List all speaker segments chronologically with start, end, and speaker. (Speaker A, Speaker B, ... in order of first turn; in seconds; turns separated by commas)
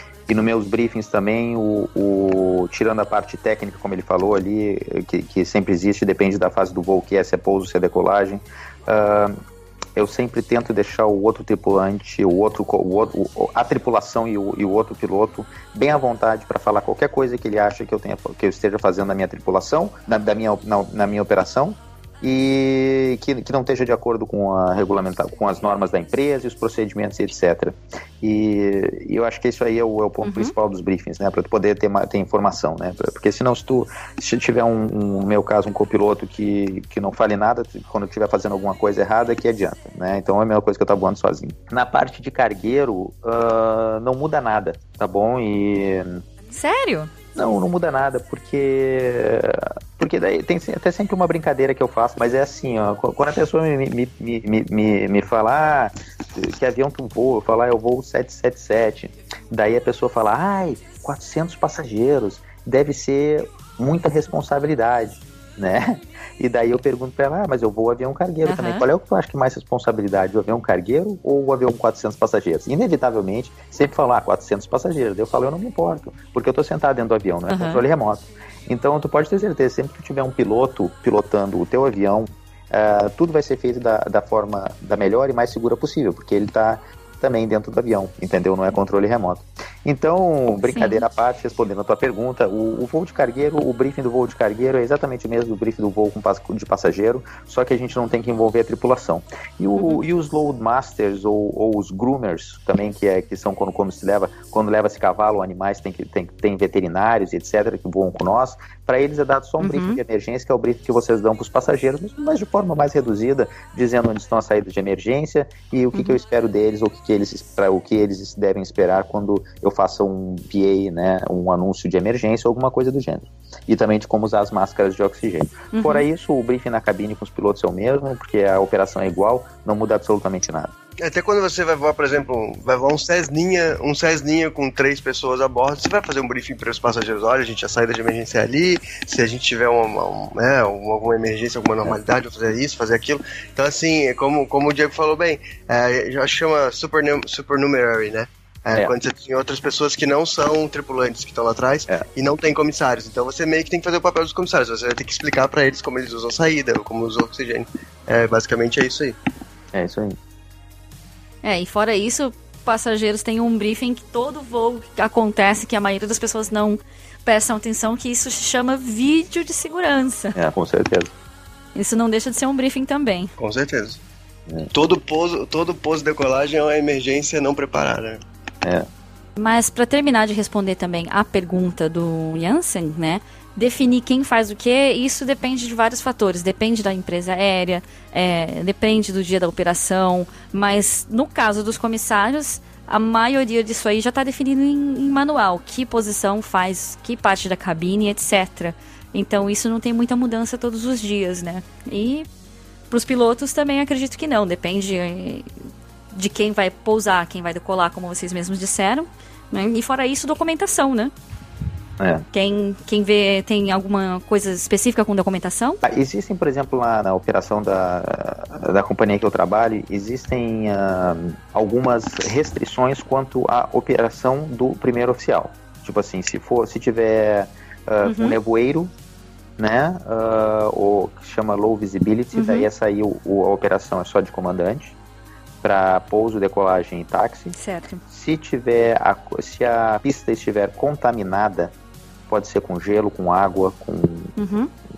Speaker A: 0.3-9.4, Speaker A: 10.0-46.2, Speaker B: 30.2-30.6, Speaker B: 46.5-47.1, Speaker A: 47.4-130.7, Speaker B: 68.5-68.8, Speaker B: 77.5-77.8, Speaker B: 90.7-91.0, Speaker B: 99.8-100.0, Speaker B: 109.6-110.0, Speaker B: 115.9-116.2, Speaker B: 125.7-126.1, Speaker C: 131.0-159.2, Speaker A: 159.7-160.2, Speaker B: 161.4-170.4, Speaker A: 170.3-171.1, Speaker B: 171.8-173.3, Speaker C: 173.4-174.0, Speaker C: 174.7-178.2, Speaker B: 179.4-202.3, Speaker B: 202.9-205.5, Speaker B: 206.1-211.1, Speaker A: 212.0-212.2, Speaker B: 212.3-215.8, Speaker A: 215.8-228.9, Speaker B: 228.0-228.4, Speaker A: 229.6-235.0, Speaker B: 232.3-232.7, Speaker A: 235.6-237.5, Speaker B: 237.5-238.0, Speaker A: 238.1-241.7, Speaker A: 242.3-244.4, Speaker B: 244.4-244.7